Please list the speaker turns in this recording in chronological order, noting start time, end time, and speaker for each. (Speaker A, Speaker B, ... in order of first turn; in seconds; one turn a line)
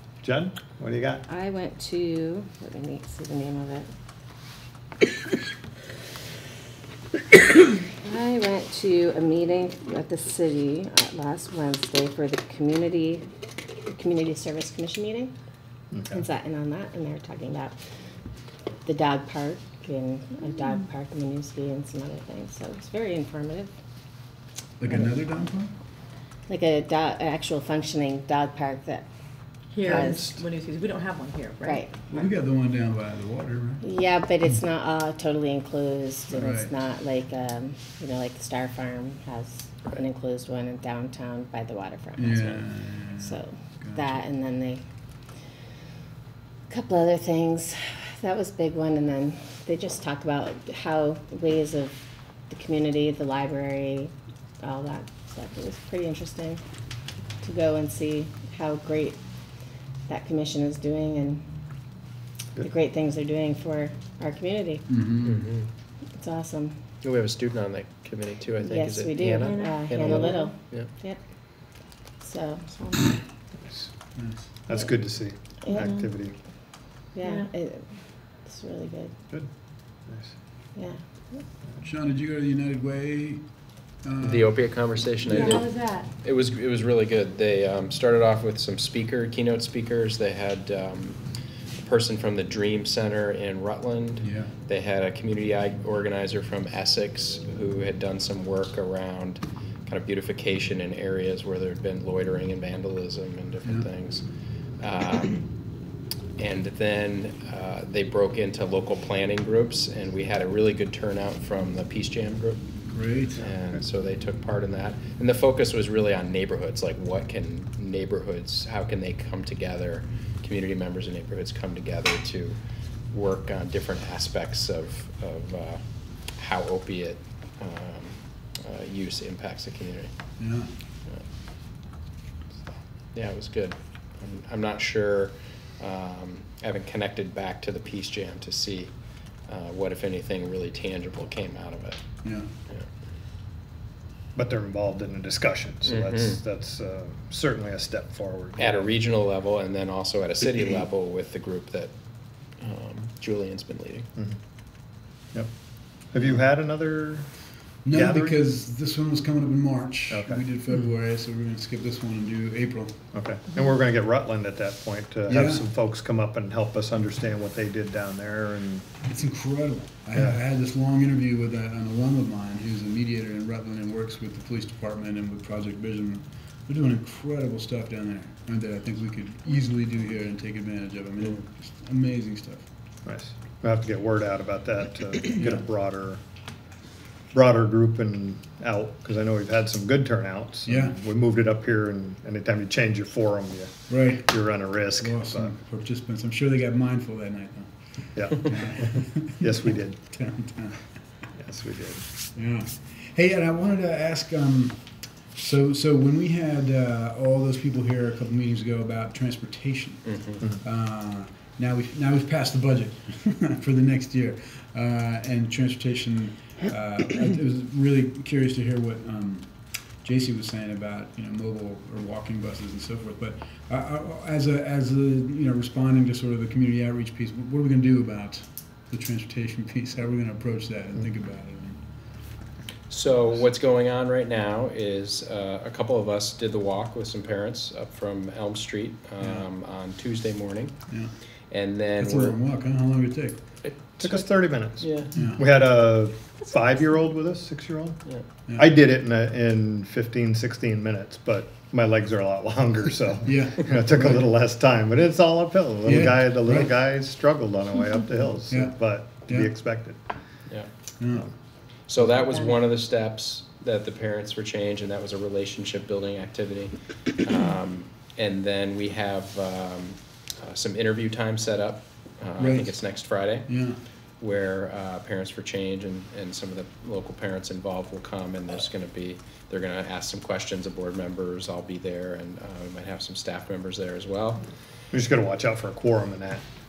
Speaker A: 0.2-1.2
Speaker B: 1.3-3.9
Speaker B: 8.0-13.2
Speaker B: 13.9-15.3
Speaker A: 15.9-16.2
Speaker B: 16.1-17.8
Speaker B: 18.8-23.7
Speaker C: 24.8-25.7
Speaker B: 26.5-29.1
Speaker D: 29.7-32.1
Speaker A: 29.8-30.4
Speaker B: 29.8-30.4
Speaker B: 31.6-31.9
Speaker C: 32.1-33.8
Speaker B: 33.8-42.6
Speaker C: 36.3-36.7
Speaker C: 42.1-44.1
Speaker B: 43.2-44.8
Speaker B: 46.7-52.0
Speaker B: 52.5-56.6
Speaker B: 57.4-59.2
Speaker B: 60.1-61.4
Speaker B: 62.6-64.9
Speaker C: 64.9-65.5
Speaker E: 65.2-65.7
Speaker B: 66.2-66.8
Speaker E: 67.0-70.9
Speaker B: 68.6-71.2
Speaker D: 69.4-70.5
Speaker B: 72.2-73.2
Speaker A: 73.6-73.9
Speaker C: 74.1-74.5
Speaker A: 74.7-76.3
Speaker D: 75.8-76.0
Speaker B: 77.1-77.9
Speaker D: 77.2-77.5
Speaker B: 78.4-79.1
Speaker A: 80.1-80.3
Speaker B: 80.8-81.4
Speaker C: 81.8-83.4
Speaker C: 84.0-84.6
Speaker E: 84.2-91.2
Speaker C: 85.3-85.6
Speaker D: 85.3-86.1
Speaker E: 91.8-104.2
Speaker C: 94.2-94.5
Speaker E: 104.8-105.4
Speaker E: 106.4-112.6
Speaker C: 112.9-113.4
Speaker E: 113.4-122.6
Speaker E: 123.1-125.8
Speaker E: 126.4-130.1
Speaker C: 130.4-130.7
Speaker E: 132.7-138.9
Speaker E: 139.5-142.0
Speaker C: 142.2-142.5
Speaker A: 144.3-148.9
Speaker E: 145.8-146.4
Speaker E: 148.6-151.9
Speaker E: 152.6-154.1
Speaker A: 156.1-157.2
Speaker C: 157.8-163.0
Speaker A: 157.9-158.4
Speaker A: 160.1-160.4
Speaker A: 163.1-168.8
Speaker C: 165.3-165.7
Speaker C: 169.0-182.7
Speaker A: 183.0-186.2
Speaker A: 187.3-195.5
Speaker C: 190.7-191.0
Speaker C: 193.9-200.8
Speaker A: 198.2-200.0
Speaker A: 201.4-202.1
Speaker C: 202.3-231.8
Speaker E: 210.1-210.4
Speaker E: 232.9-240.7
Speaker E: 241.5-242.4
Speaker C: 242.0-243.4
Speaker E: 243.6-245.3
Speaker A: 244.0-248.0
Speaker C: 245.1-245.4
Speaker A: 248.6-260.0
Speaker C: 253.2-254.3
Speaker C: 255.8-256.7
Speaker C: 258.5-259.5
Speaker C: 261.0-261.3
Speaker E: 261.9-273.5
Speaker C: 272.4-272.8
Speaker C: 273.4-273.8
Speaker E: 274.2-284.4
Speaker A: 284.9-286.4